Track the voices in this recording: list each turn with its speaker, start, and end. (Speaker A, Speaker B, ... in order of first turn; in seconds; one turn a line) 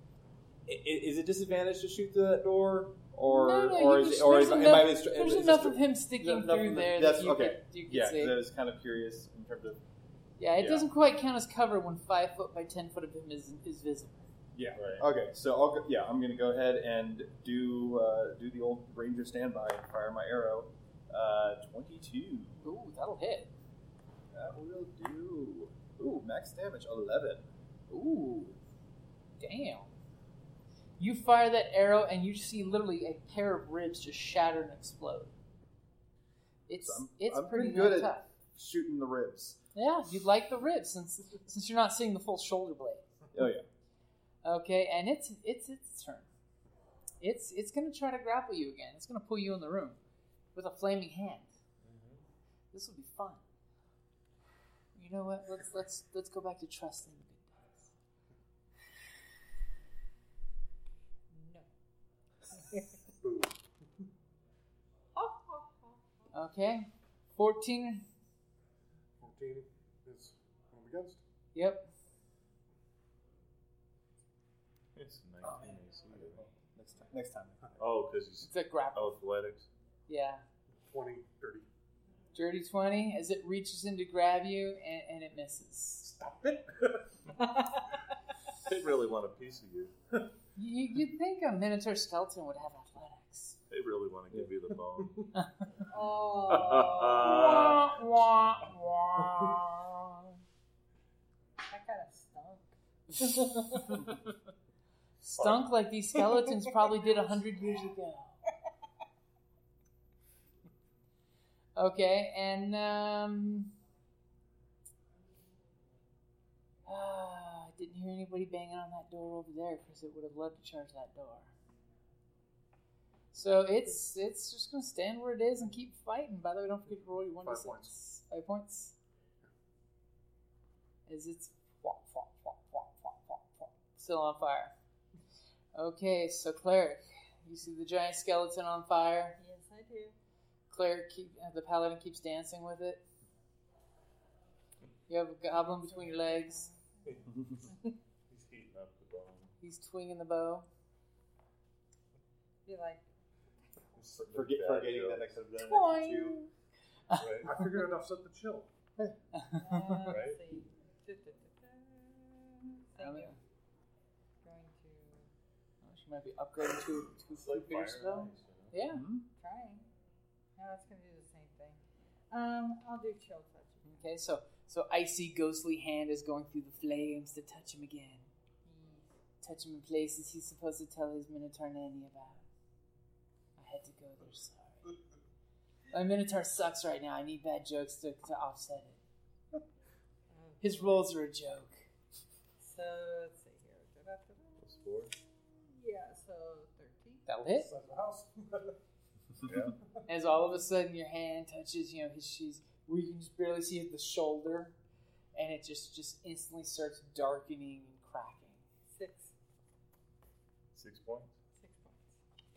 Speaker A: 0.7-9.8
Speaker B: 3.3-8.4
Speaker B: 10.4-14.2
Speaker A: 10.6-10.8
Speaker A: 14.5-22.6
Speaker C: 14.8-15.0
Speaker B: 22.6-23.5
Speaker A: 24.3-27.5
Speaker B: 27.9-28.6
Speaker B: 29.4-29.9
Speaker B: 31.0-35.3
Speaker B: 36.7-38.3
Speaker A: 36.8-39.6
Speaker B: 39.8-43.0
Speaker A: 43.3-43.6
Speaker B: 44.4-46.3
Speaker B: 47.2-50.0
Speaker B: 50.5-51.5
Speaker C: 51.8-52.2
Speaker B: 52.7-53.4
Speaker B: 55.0-57.9
Speaker D: 61.3-61.7
Speaker D: 62.6-63.0
Speaker E: 63.2-63.6
Speaker D: 65.2-66.0
Speaker B: 66.3-68.0
Speaker E: 69.2-71.2
Speaker B: 71.5-71.9
Speaker C: 75.0-76.4
Speaker A: 76.1-77.7
Speaker C: 77.8-79.7
Speaker B: 78.4-79.2
Speaker B: 80.1-80.4
Speaker E: 80.8-81.7
Speaker B: 82.3-86.1
Speaker E: 86.0-87.1
Speaker C: 88.6-89.9
Speaker B: 90.6-93.6
Speaker C: 93.7-95.3
Speaker D: 95.9-97.5
Speaker C: 96.5-97.9
Speaker B: 97.2-100.4
Speaker D: 101.7-102.7
Speaker B: 103.3-104.0
Speaker B: 105.2-108.4
Speaker C: 105.4-105.6
Speaker B: 111.8-113.7
Speaker B: 116.9-121.5
Speaker B: 123.3-128.9
Speaker E: 127.4-128.0
Speaker B: 131.1-134.7
Speaker B: 135.7-139.4
Speaker D: 139.4-140.2
Speaker B: 140.7-143.0
Speaker B: 145.1-146.7
Speaker D: 145.9-146.8
Speaker C: 148.3-149.5
Speaker B: 149.6-150.7
Speaker D: 152.7-153.0
Speaker C: 154.0-155.8
Speaker A: 154.3-156.4
Speaker B: 155.6-156.5
Speaker B: 157.1-157.6
Speaker C: 157.2-157.5
Speaker E: 157.4-158.7
Speaker B: 159.0-160.2
Speaker D: 159.6-163.3
Speaker C: 160.1-160.4
Speaker B: 163.0-163.4
Speaker D: 164.4-165.3
Speaker B: 165.8-169.1
Speaker C: 167.3-168.7
Speaker A: 168.9-169.2
Speaker D: 169.4-169.9
Speaker D: 170.6-171.8
Speaker D: 172.3-174.0
Speaker B: 173.8-178.3
Speaker D: 178.7-179.1
Speaker B: 179.4-182.4
Speaker B: 183.6-184.9
Speaker B: 185.9-189.0
Speaker D: 190.3-191.1
Speaker B: 190.6-191.8
Speaker D: 192.6-194.7
Speaker C: 194.6-195.1
Speaker D: 195.7-197.2
Speaker B: 197.3-197.7
Speaker E: 197.6-198.8
Speaker C: 199.4-199.8
Speaker B: 200.1-204.7
Speaker B: 205.3-208.6
Speaker D: 208.9-209.3
Speaker C: 210.8-211.3
Speaker D: 211.6-212.1